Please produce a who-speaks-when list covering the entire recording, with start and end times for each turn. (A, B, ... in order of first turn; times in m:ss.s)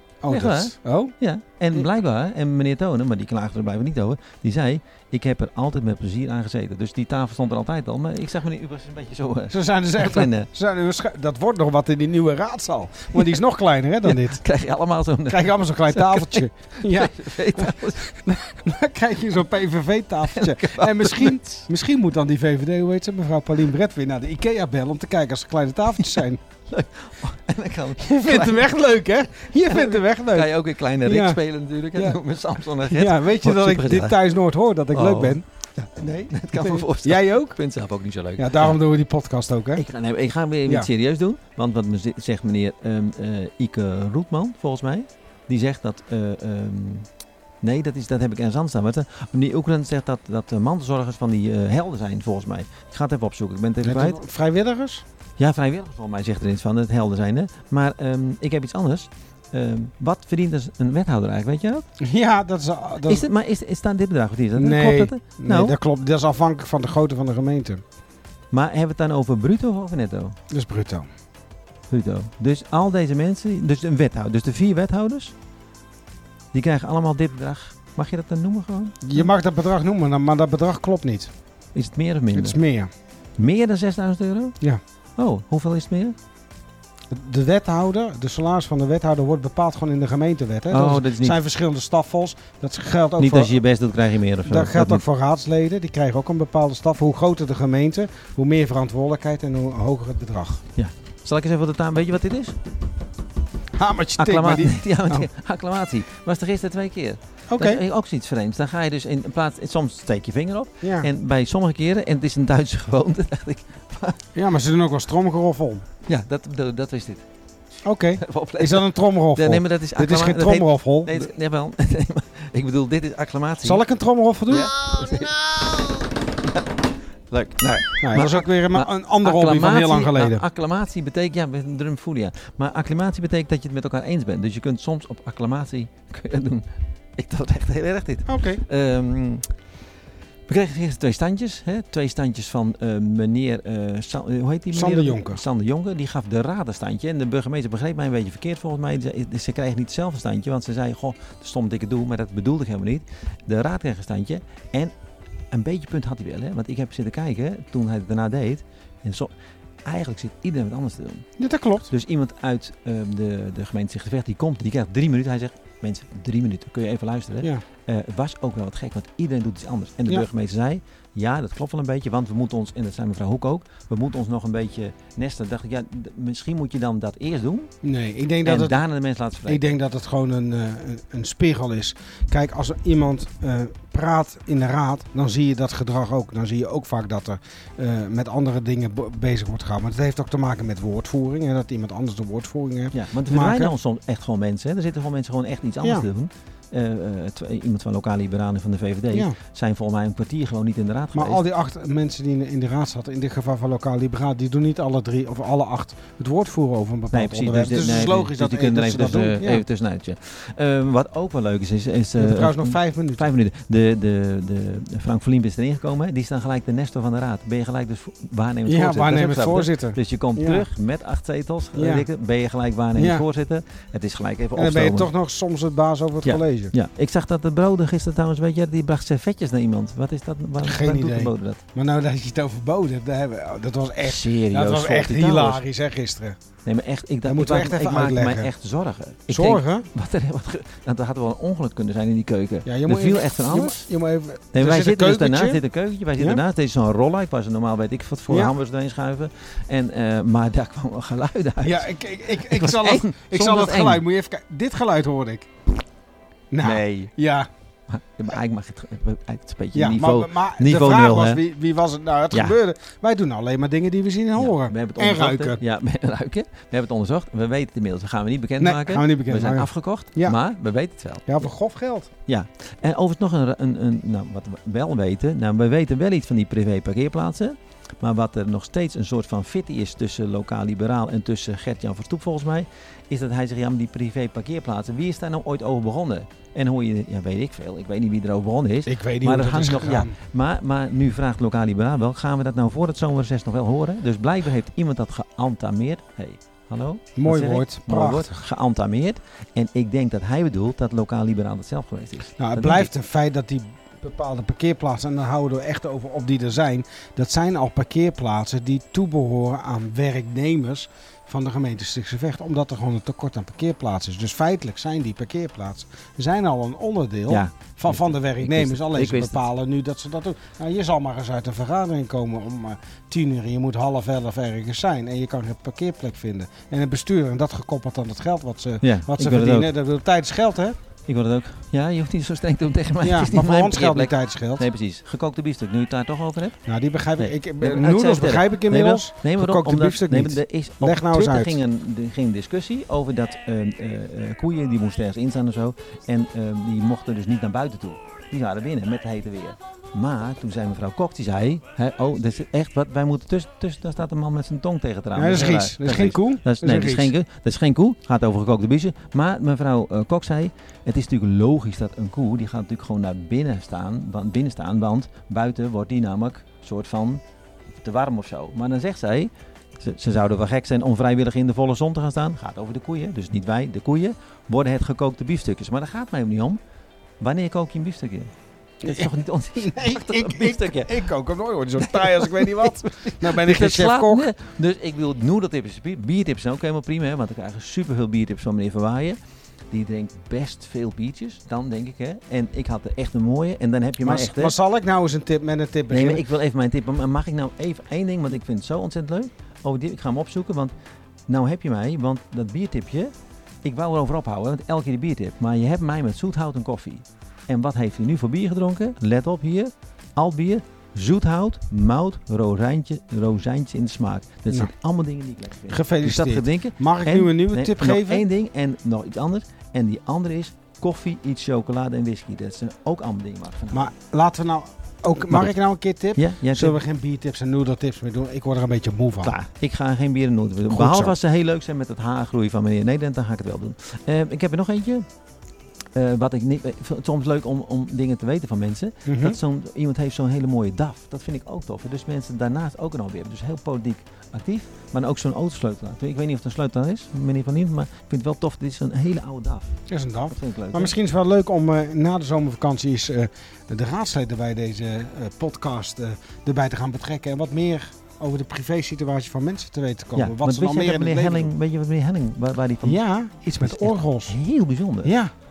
0:00.2-0:01.1 A
0:00.3-0:10.5 B
0:09.5-0:14.4 A
0:13.1-0:13.4 B
0:14.0-0:18.2 B
0:15.3-0:26.4 A
0:20.3-0:21.6 B
0:26.0-0:28.7 B
0:28.0-0:30.5 A
0:29.6-0:34.2 B
0:31.0-0:31.4 A
0:32.8-0:37.6 A
0:34.9-0:35.4 B
0:36.3-0:38.8 B
0:38.4-0:39.8 A
0:39.8-0:47.1 B
0:47.6-0:54.2 B
0:53.8-0:55.0 A
0:55.4-1:01.9 B
1:02.0-1:03.3 A
1:03.1-1:05.8 B
1:04.6-1:07.8 A
1:08.5-1:10.4 B
1:10.5-1:11.1 A
1:11.9-1:15.3 B
1:16.5-1:19.3 B
1:19.0-1:21.3 A
1:21.7-1:22.6 B
1:22.3-1:22.9 A
1:23.4-1:24.6 B
1:25.2-1:26.2 B
1:27.1-1:33.6 A
1:30.7-1:31.4 B
1:33.2-1:35.0 B
1:34.5-1:40.6 A
1:40.8-1:42.6 B
1:43.7-1:45.3 A
1:44.2-1:54.2 B
1:47.5-1:47.8 A
1:50.8-1:51.1 A
1:54.4-1:55.8 A
1:56.1-1:57.2 B
1:57.8-2:01.3 A
1:58.2-2:03.8 B
2:03.6-2:04.7 A
2:04.5-2:06.1 B
2:07.3-2:16.6 B
2:08.0-2:10.4 A
2:17.2-2:19.5 B
2:18.3-2:18.6 A
2:20.5-2:34.9 B
2:24.7-2:25.4 A
2:35.5-2:39.3 B
2:39.8-2:41.3 B
2:41.4-2:41.9 A
2:41.9-2:57.7 B
2:57.8-2:58.8 A
2:58.4-2:59.7 B
2:59.5-3:13.7 A
3:12.9-3:21.4 B
3:19.1-3:19.4 A
3:21.2-3:29.6 A
3:27.1-3:45.1 B
3:32.2-3:33.3 A
3:38.7-3:40.6 A
3:41.8-3:42.1 A
3:43.0-3:43.2 A
3:44.6-3:46.7 A
3:46.2-3:51.6 B
3:50.6-3:56.4 A
3:54.0-3:55.6 B
3:56.7-4:03.9 B
3:57.2-3:58.5 A
3:59.3-3:59.9 A
4:02.7-4:05.6 A
4:04.5-4:11.9 B
4:08.3-4:08.6 A
4:11.6-4:15.5 A
4:12.4-4:14.0 B
4:16.5-4:17.5 A
4:16.6-4:17.1 B
4:17.9-4:21.4 B
4:19.8-4:25.6 A
4:22.3-4:22.6 B
4:24.4-4:31.5 B
4:28.6-4:30.4 A
4:31.3-4:32.1 A
4:32.3-5:02.9 B
4:48.9-4:50.2 A
4:57.2-4:58.4 A
5:02.4-5:30.8 A
5:17.3-5:19.4 B
5:28.8-5:29.7 B
5:31.1-5:36.6 B
5:33.0-5:34.6 A
5:36.7-5:41.6 A
5:37.2-6:07.2 B
5:55.2-5:57.1 A
6:07.8-6:16.6 B
6:17.2-6:18.3 B
6:18.8-6:24.3 A
6:18.8-6:21.1 B
6:21.8-6:29.2 B
6:29.7-6:34.6 B
6:34.0-6:36.2 A
6:35.9-6:40.7 B
6:41.3-6:43.1 B
6:43.6-7:03.9 B
6:55.7-6:58.2 A
7:03.7-7:09.4 A
7:05.2-7:05.6 B
7:06.2-7:06.8 B
7:09.2-7:15.0 B
7:10.7-7:11.2 A
7:16.0-7:29.7 B
7:19.1-7:19.4 A
7:29.9-7:41.5 A
7:30.3-7:31.0 B
7:40.2-7:43.0 B
7:42.8-7:44.4 A
7:43.6-7:45.1 B
7:45.0-7:45.3 A